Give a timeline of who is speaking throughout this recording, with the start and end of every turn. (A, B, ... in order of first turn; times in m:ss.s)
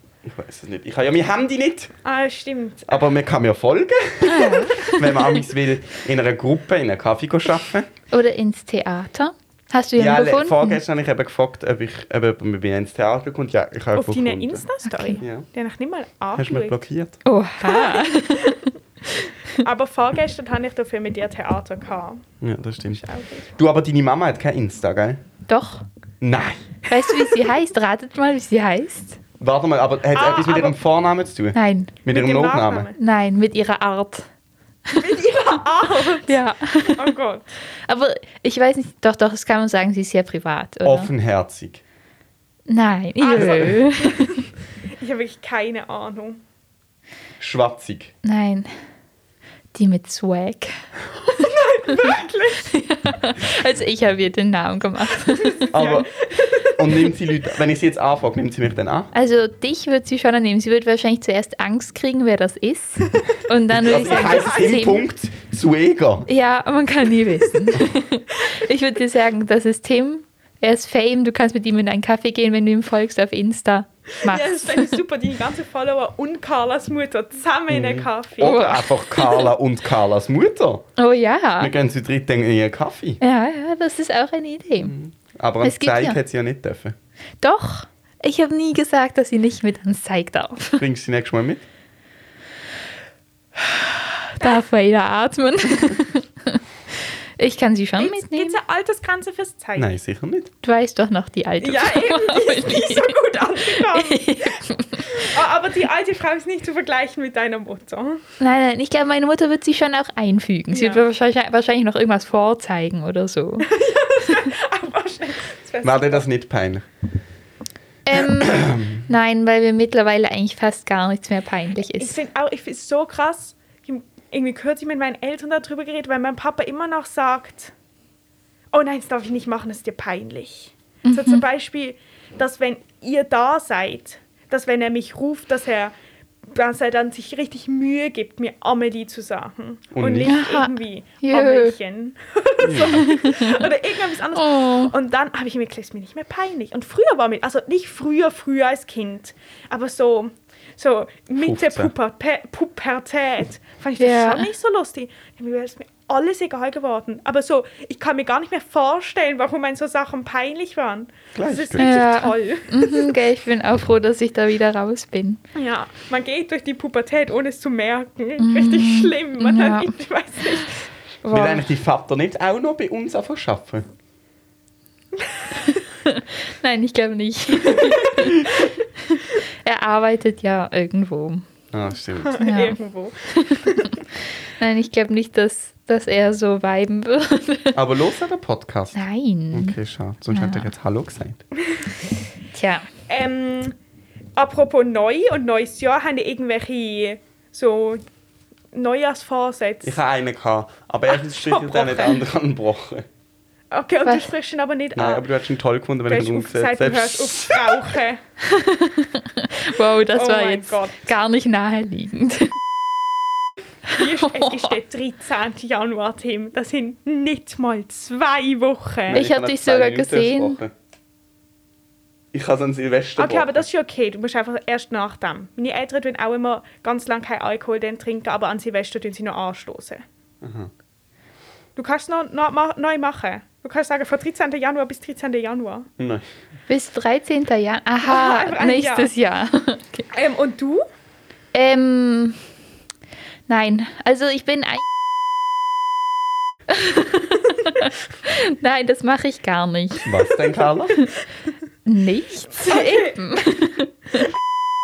0:00.2-0:01.9 A
0:02.0-0:03.1 B
0:02.9-0:07.9 A
0:04.3-0:05.3 C
0:08.1-0:10.8 C
0:10.0-0:14.6 A
0:13.9-0:16.8 B
0:14.8-0:15.2 C
0:15.2-0:15.4 A
0:16.3-0:17.2 A
0:17.2-0:18.7 C
0:17.6-0:18.6 B
0:19.5-0:22.2 B
0:22.4-0:23.0 A
0:22.9-0:23.5 B
0:23.5-0:25.2 A
0:25.5-0:25.8 C
0:26.2-0:26.7 A
0:26.9-0:29.2 C
0:29.4-0:32.9 A
0:30.1-0:30.8 B
0:31.5-0:32.0 C
0:32.1-0:33.0 B
0:33.0-0:34.3 C
0:34.9-0:35.2 C
0:34.9-0:37.5 B
0:36.2-0:37.1 C
0:37.8-0:41.1 C
0:40.8-0:41.8 A
0:42.7-0:44.4 C
0:43.2-0:44.5 B
0:43.4-0:43.8 A
0:45.0-0:46.4 B
0:47.4-0:48.1 A
0:48.2-0:48.7 C
0:49.7-0:50.8 C
0:51.3-0:52.7 B
0:51.9-0:52.1 C
0:52.7-0:55.7 C
0:55.3-0:57.0 B
0:55.7-0:56.1 A
0:56.6-0:59.1 A
0:59.1-1:05.0 C
1:03.7-1:06.3 A
1:03.9-1:04.9 B
1:06.3-1:15.0 C
1:14.2-1:18.7 B
1:17.7-1:20.8 A
1:18.4-1:19.5 C
1:21.0-1:21.7 C
1:21.6-1:23.2 A
1:23.2-1:24.9 C
1:24.8-1:27.0 A
1:25.6-1:26.2 C
1:27.4-1:30.8 C
1:30.8-1:31.6 A
1:33.6-1:38.6 C
1:38.0-1:39.9 B
1:39.8-1:40.5 A
1:40.6-1:45.3 C
1:41.6-1:44.3 B
1:45.0-1:48.2 B
1:48.4-1:53.7 C
1:50.7-1:51.0 B
1:53.6-1:56.2 B
1:55.8-1:56.8 A
1:58.0-2:02.2 C
1:58.1-1:59.0 A
2:02.0-2:07.7 B
2:08.7-2:15.9 B
2:11.0-2:11.4 C
2:16.5-2:43.1 B
2:19.9-2:20.3 A
2:20.3-2:20.7 C
2:21.2-2:21.7 C
2:22.6-2:23.1 A
2:22.8-2:23.7 C
2:24.3-2:24.9 C
2:31.4-2:31.9 A
2:34.0-2:34.5 C
2:41.3-2:41.9 A
2:41.8-2:45.4 C
2:45.5-2:50.8 B
2:48.4-2:50.7 C
2:51.2-2:51.7 C
2:51.3-2:53.8 A
2:56.0-3:01.4 C
2:57.7-2:58.2 B
3:01.7-3:02.4 A
3:02.2-3:04.0 B
3:02.4-3:02.8 C
3:03.3-3:03.9 C
3:04.6-3:07.8 C
3:07.7-3:11.4 A
3:08.9-3:09.8 C
3:10.3-3:10.7 C
3:12.5-3:12.8 C
3:13.1-3:13.8 B
3:14.4-3:18.0 B
3:18.7-3:20.0 B
3:19.8-3:23.0 A
3:21.1-3:22.2 B
3:23.7-3:25.3 B
3:24.0-3:24.3 C
3:25.0-3:27.8 A
3:26.1-3:28.2 B
3:28.4-3:32.6 C
3:30.1-3:31.1 B
3:33.9-3:34.7 C
3:33.9-3:39.2 B
3:39.1-3:40.7 A
3:39.1-3:40.6 C
3:42.3-3:43.6 A
3:43.2-3:50.0 B
3:50.4-3:50.7 A
3:51.8-3:55.9 B
3:56.0-3:56.2 A
3:56.7-4:00.1 C
3:58.0-3:59.1 B
4:00.1-4:00.8 B
4:01.5-4:02.4 C
4:03.5-4:04.8 C
4:06.7-4:10.3 C
4:10.0-4:11.1 A
4:11.8-4:14.2 C
4:12.6-4:13.1 B